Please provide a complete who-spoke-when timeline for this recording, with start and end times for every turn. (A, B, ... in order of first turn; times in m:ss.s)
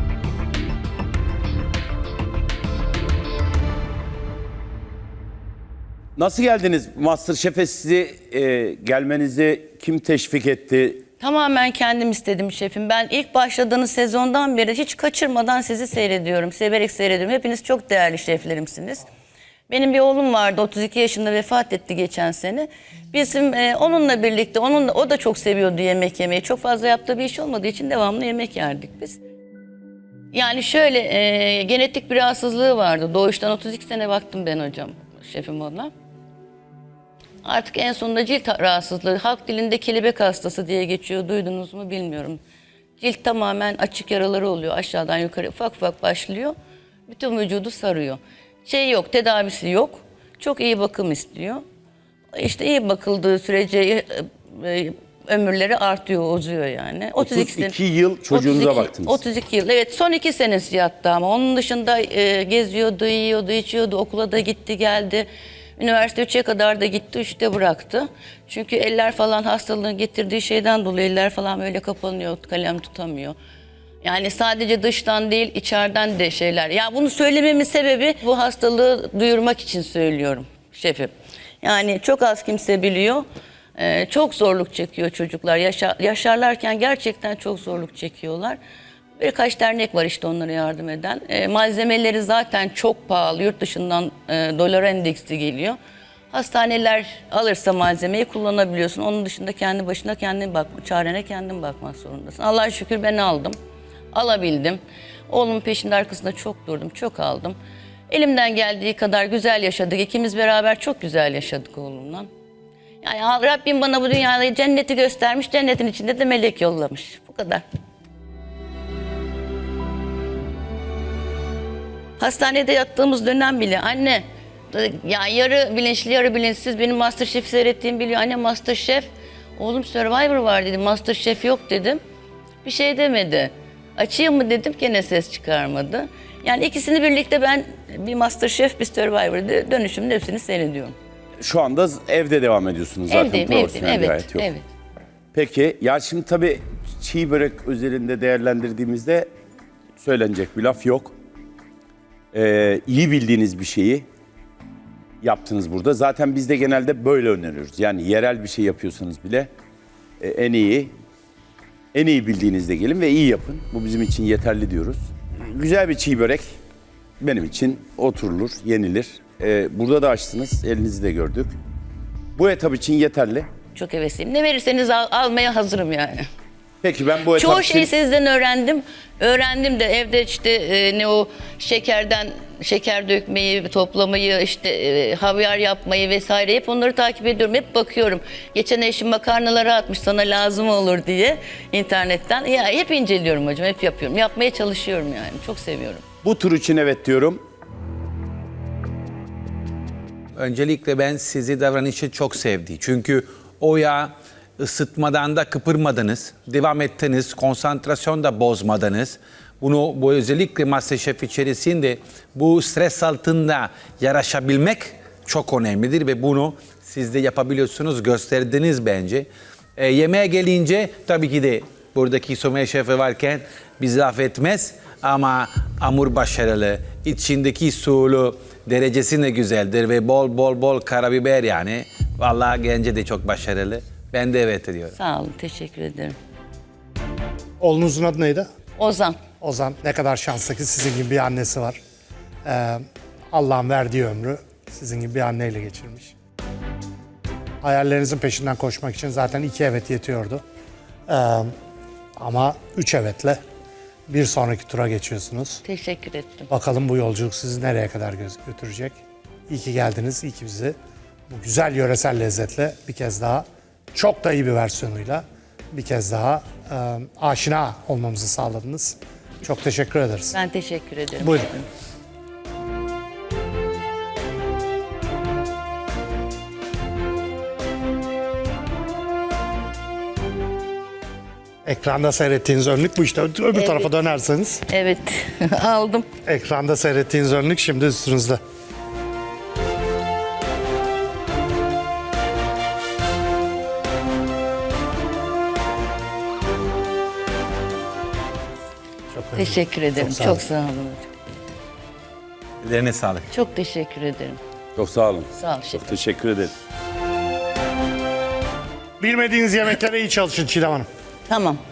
0:06.2-0:11.0 A
0:11.2-0:19.0 B
0:19.7-0:29.2 B
0:30.3-0:35.9 B
0:37.4-0:42.4 B
0:43.0-0:46.5 B
0:47.1-0:51.6 B
0:52.3-0:57.7 B
0:57.2-0:59.2 A
0:58.3-1:13.4 B
1:14.0-1:28.6 B
1:29.2-1:35.8 B
1:36.3-1:43.6 B
1:44.1-1:47.6 B
1:48.1-1:52.3 B
1:53.0-1:57.6 B
2:02.2-2:12.0 B
2:12.6-2:21.0 B
2:21.4-2:24.5 A
2:23.1-2:24.6 B
2:25.3-2:29.3 A
2:30.0-2:31.1 A
2:32.3-2:34.0 A
2:35.2-2:39.5 A
2:40.2-2:40.9 A
2:41.9-2:46.5 A
2:47.2-2:51.6 A
2:52.4-2:53.5 A
2:53.7-2:56.3 B
2:56.8-2:57.9 A
2:57.3-3:16.0 B
3:16.2-3:17.4 A
3:20.4-3:54.9 C
3:54.9-3:56.2 B
3:57.6-3:58.5 D
3:58.8-3:59.2 B
3:59.4-4:01.8 D
4:02.4-4:06.1 D
4:07.6-4:10.4 D
4:11.1-4:11.5 D
4:12.2-4:13.4 D
4:14.1-4:15.6 D
4:15.6-4:16.5 B
4:16.5-4:19.0 D
4:19.5-4:20.8 D
4:21.3-4:30.4 D
4:30.3-4:31.7 B
4:31.2-4:31.5 D
4:41.6-4:44.6 D
4:43.5-4:43.9 B
4:44.7-4:46.0 B
4:46.2-4:48.4 D
4:59.1-5:00.4 D
4:59.4-5:01.1 B
5:02.6-5:03.3 C
5:03.3-5:04.4 B
5:04.8-5:06.5 A
5:05.3-5:06.0 B
5:09.0-5:10.9 D
5:11.3-5:11.6 B